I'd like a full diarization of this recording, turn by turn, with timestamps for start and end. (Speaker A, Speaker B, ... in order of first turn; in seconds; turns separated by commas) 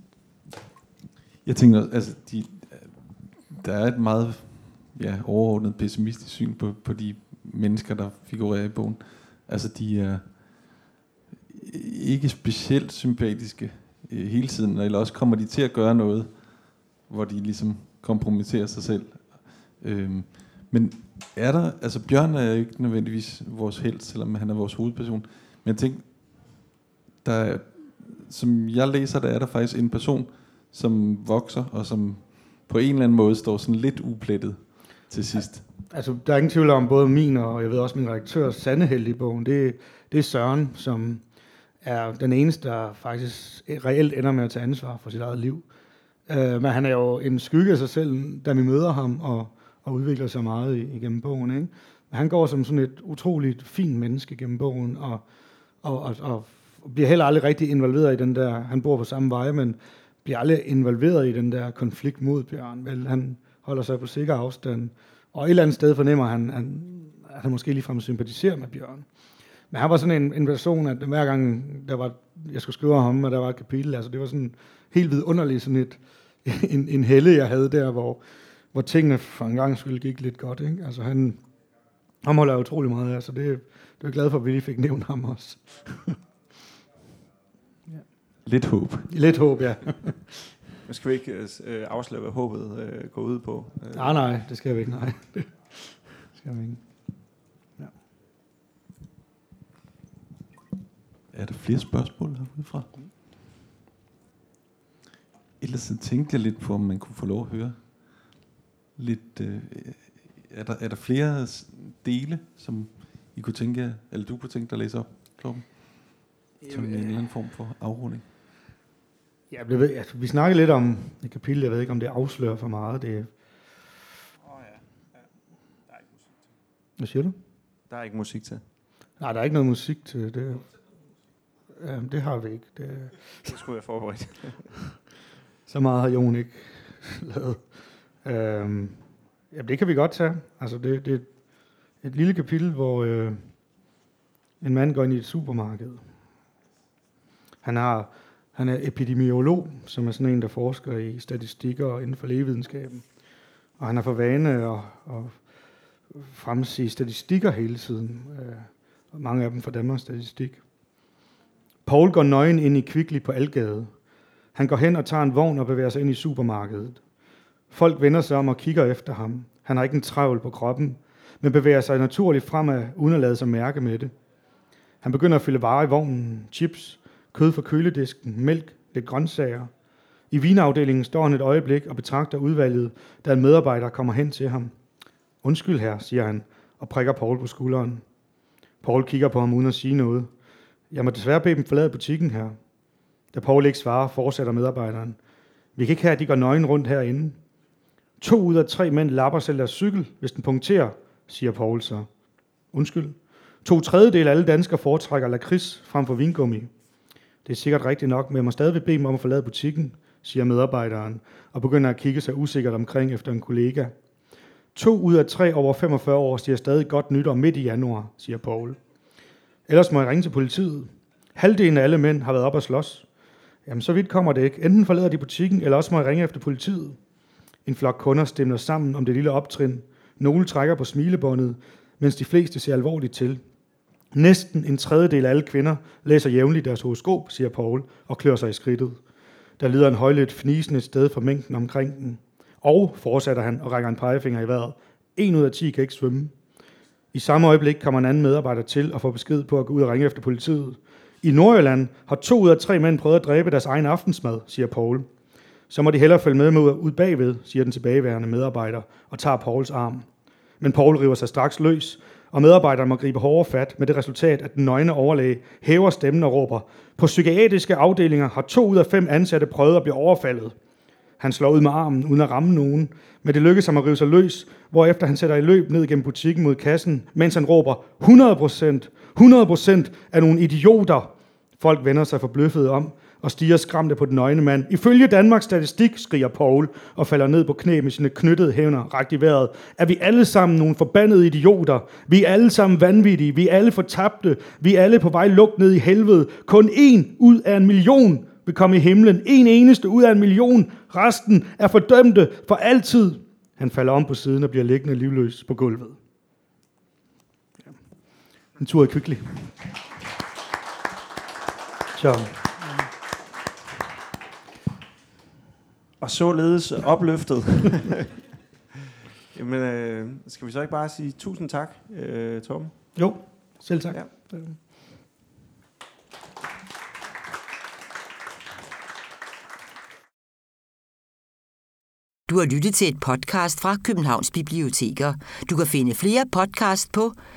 Speaker A: 1.4-10.9, Speaker A: 11.5-26.7, Speaker A: 27.2-35.6, Speaker B: 35.9-41.2, Speaker B: 41.8-45.6, Speaker B: 46.3-55.2, Speaker B: 55.8-69.0, Speaker B: 69.7-78.2, Speaker B: 78.7-81.4, Speaker B: 82.2-86.2, Speaker A: 88.4-89.1, Speaker B: 89.1-90.5, Speaker C: 90.8-94.2, Speaker B: 93.9-97.1, Speaker A: 101.3-102.9, Speaker A: 105.6-118.2, Speaker B: 116.6-117.1, Speaker B: 119.5-123.3, Speaker C: 124.5-124.8, Speaker B: 127.0-127.3, Speaker C: 127.9-128.6, Speaker B: 129.2-130.7, Speaker B: 131.8-133.2, Speaker C: 133.4-134.7, Speaker B: 135.7-137.6, Speaker B: 138.2-141.3, Speaker B: 142.0-143.5, Speaker B: 144.6-146.0, Speaker B: 147.6-153.1, Speaker B: 153.8-155.4, Speaker B: 156.1-160.6, Speaker B: 161.8-163.9, Speaker B: 164.5-167.0, Speaker B: 167.7-174.1, Speaker B: 175.0-179.7, Speaker B: 180.3-184.7, Speaker B: 185.4-188.0, Speaker B: 188.8-190.3, Speaker B: 190.9-192.6, Speaker B: 193.3-195.2, Speaker B: 195.8-197.4, Speaker B: 198.2-202.1, Speaker B: 202.7-206.7, Speaker B: 207.4-213.9, Speaker B: 214.7-218.8, Speaker B: 219.7-223.1, Speaker B: 223.7-227.0, Speaker B: 227.7-233.4, Speaker B: 234.1-239.0, Speaker B: 239.6-246.3, Speaker B: 247.1-255.1, Speaker B: 255.7-260.1, Speaker B: 260.6-270.5, Speaker B: 271.2-306.0, Speaker B: 308.6-309.5, Speaker B: 311.9-312.6, Speaker C: 316.0-318.1, Speaker C: 319.3-322.9, Speaker B: 322.9-324.6, Speaker D: 332.3-337.1